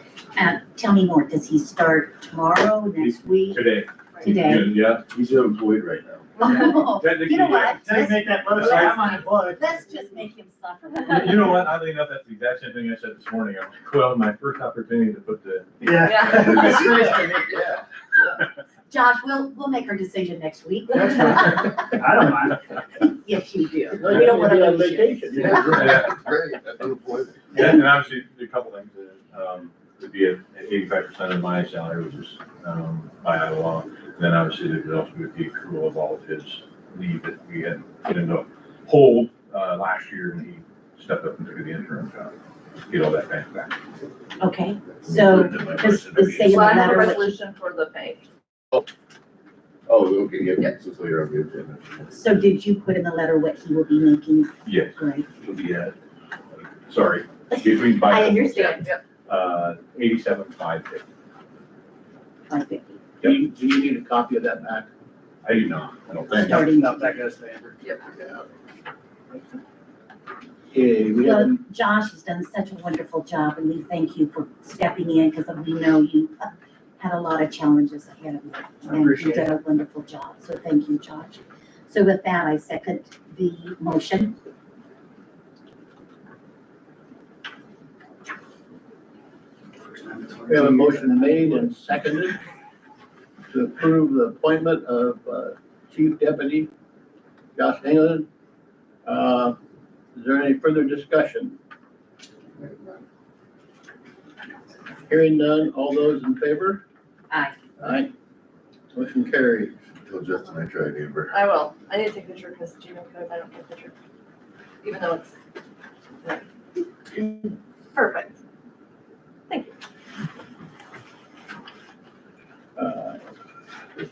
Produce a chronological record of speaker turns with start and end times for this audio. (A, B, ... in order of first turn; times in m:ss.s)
0:00.4-0:03.6 A
0:03.0-0:05.1 B
0:04.2-0:04.8 A
0:05.0-0:06.3 C
0:06.4-0:11.7 A
0:06.9-0:09.3 B
0:07.8-0:09.6 D
0:11.1-0:16.8 B
0:15.8-0:17.6 D
0:16.0-0:16.9 E
0:16.6-0:17.8 C
0:18.9-0:21.9 A
0:20.9-0:22.6 D
0:23.0-0:25.4 A
0:24.0-0:25.7 F
0:25.3-0:27.5 C
0:25.6-0:26.2 B
0:27.5-0:42.3 B
0:42.9-0:43.8 B
0:44.4-0:47.3 A
0:45.2-0:47.1 B
0:46.4-0:48.2 E
0:49.9-0:52.1 C
0:52.1-0:55.3 A
0:54.6-0:55.9 B
0:56.5-1:01.0 B
0:57.5-0:58.9 A
0:58.5-0:59.0 E
1:02.5-1:03.0 A
1:03.2-1:04.9 F
1:05.4-1:06.7 B
1:06.3-1:07.2 A
1:06.6-1:08.1 D
1:10.7-1:11.6 F
1:11.2-1:24.3 A
1:18.8-1:19.5 D
1:29.9-1:31.9 D
1:30.5-1:32.4 F
1:33.5-1:36.7 F
1:37.6-1:38.3 F
1:39.0-1:39.6 F
1:40.1-1:41.6 F
1:42.6-1:42.9 C
1:45.1-1:46.8 F
1:47.3-1:47.6 A
1:47.8-1:48.1 F
1:48.9-1:49.7 F
1:50.0-1:51.3 C
1:51.3-1:53.9 E
1:54.8-1:55.3 E
1:57.2-1:58.4 E
1:59.5-1:59.8 E
2:02.8-2:03.2 F